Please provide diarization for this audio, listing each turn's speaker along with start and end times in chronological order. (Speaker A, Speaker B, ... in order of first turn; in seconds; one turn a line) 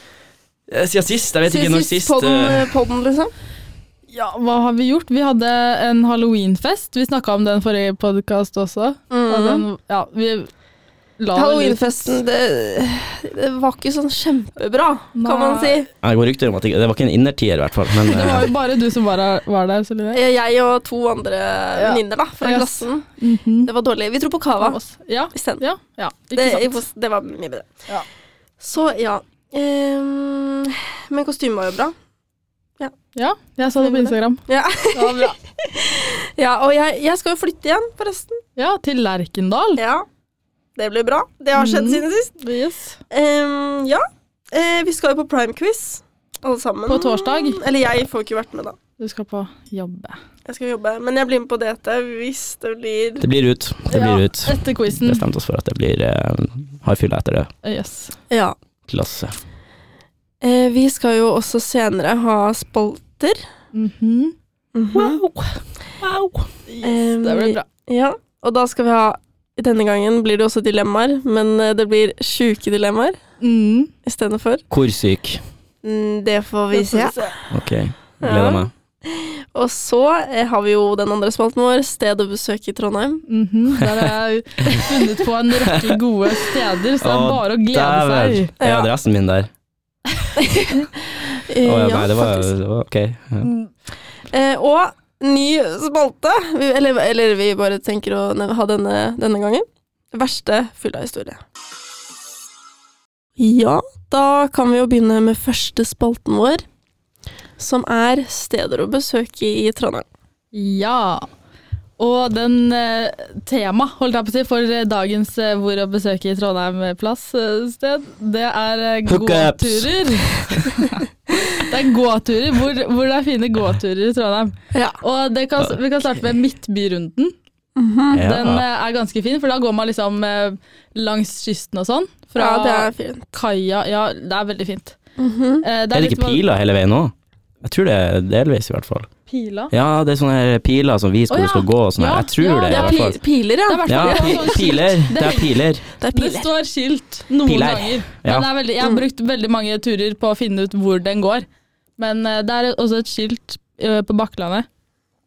Speaker A: 0.7-2.7
Speaker B: 1.5-3.3
Speaker C: 4.1-10.5
Speaker B: 9.1-9.7
Speaker C: 11.2-12.2
Speaker B: 11.3-15.9
Speaker C: 15.2-15.8
Speaker A: 16.0-18.5
Speaker C: 18.1-20.2
Speaker B: 20.1-23.1
Speaker C: 21.8-23.7
Speaker B: 23.7-24.8
Speaker C: 24.6-26.8
Speaker B: 25.3-25.6
Speaker B: 26.4-27.8
Speaker B: 28.6-31.9
Speaker C: 33.1-35.4
Speaker B: 33.8-38.4
Speaker C: 38.6-39.8
Speaker B: 39.8-40.1
Speaker B: 40.8-42.4
Speaker C: 41.5-43.0
Speaker B: 43.1-48.8
Speaker C: 46.9-47.6
Speaker C: 49.0-50.2
Speaker B: 50.5-53.2
Speaker A: 53.2-57.5
Speaker C: 53.9-55.2
Speaker C: 57.6-58.1
Speaker B: 58.3-58.5
Speaker A: 58.9-59.4
Speaker B: 60.4-63.4
Speaker C: 63.7-64.3
Speaker B: 64.7-65.2
Speaker C: 64.9-67.7
Speaker B: 66.8-73.2
Speaker C: 73.4-73.9
Speaker B: 74.0-74.6
Speaker A: 74.7-75.4
Speaker B: 75.8-77.3
Speaker C: 76.7-77.3
Speaker A: 77.5-78.7
Speaker B: 78.2-83.2
Speaker C: 83.3-88.5
Speaker A: 83.8-84.1
Speaker A: 85.7-86.0
Speaker A: 87.0-89.5
Speaker B: 88.6-88.9
Speaker B: 90.4-92.5
Speaker A: 91.6-93.5
Speaker C: 93.4-93.7
Speaker B: 94.3-101.4
Speaker B: 103.4-106.6
Speaker B: 107.6-110.1
Speaker C: 110.5-111.3
Speaker C: 112.0-127.3
Speaker A: 119.1-120.9
Speaker B: 124.7-125.0
Speaker B: 127.8-128.2
Speaker A: 128.1-128.6
Speaker C: 128.1-135.0
Speaker B: 132.4-133.3
Speaker B: 135.2-135.7
Speaker C: 135.6-136.4
Speaker A: 135.9-139.1
Speaker C: 139.3-139.7
Speaker A: 139.7-143.2
Speaker C: 141.3-145.5
Speaker B: 142.7-144.6
Speaker A: 143.9-145.8
Speaker B: 146.0-146.5
Speaker C: 146.1-151.5
Speaker A: 147.5-148.5
Speaker C: 152.0-154.7